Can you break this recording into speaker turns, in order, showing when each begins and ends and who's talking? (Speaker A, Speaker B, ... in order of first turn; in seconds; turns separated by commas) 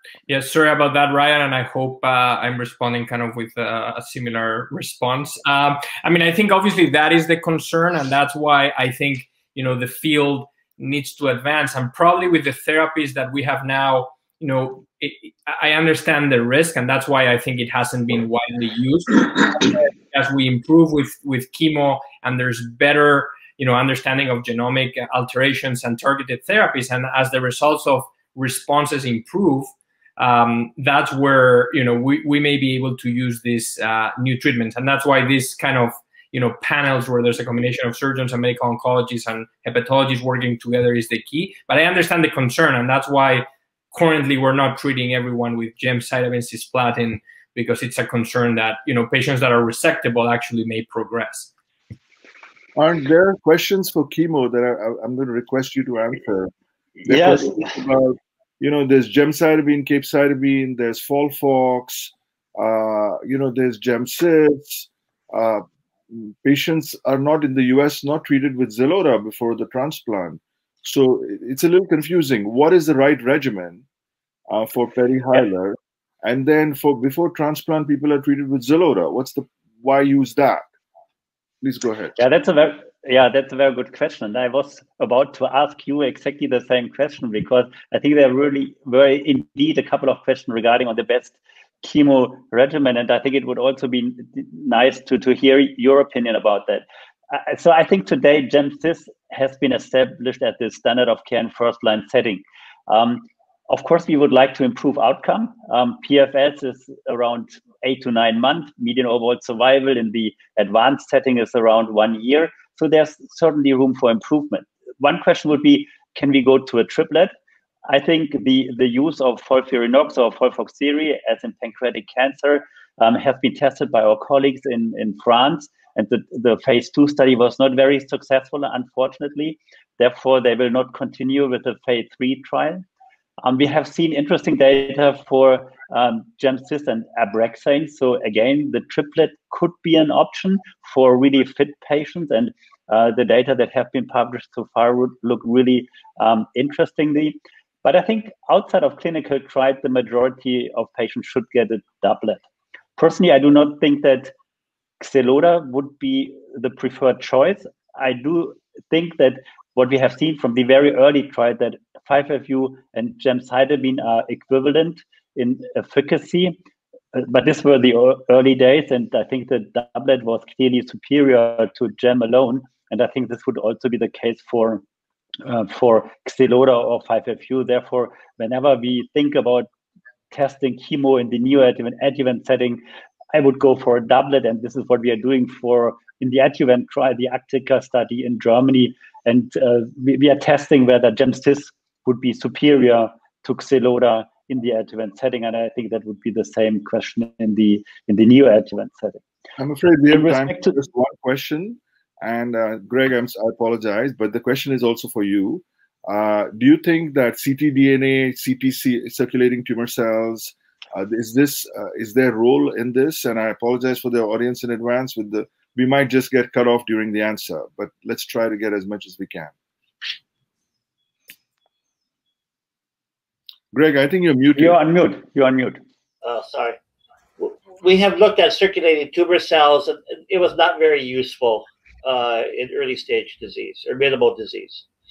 Speaker A: 0.3-51.5, Speaker B: 52.8-56.5, Speaker B: 57.0-73.8, Speaker C: 57.1-57.7, Speaker B: 74.5-80.6, Speaker B: 81.6-82.1, Speaker C: 82.2-117.3, Speaker C: 117.9-132.8, Speaker C: 133.4-152.4, Speaker C: 153.0-154.3, Speaker C: 155.0-166.6, Speaker C: 167.1-174.8, Speaker C: 175.4-179.7, Speaker C: 180.3-182.8, Speaker C: 183.3-199.2, Speaker B: 199.6-219.5, Speaker C: 200.1-200.7, Speaker B: 223.7-224.8, Speaker C: 224.6-225.8, Speaker D: 226.2-226.8, Speaker D: 227.4-234.8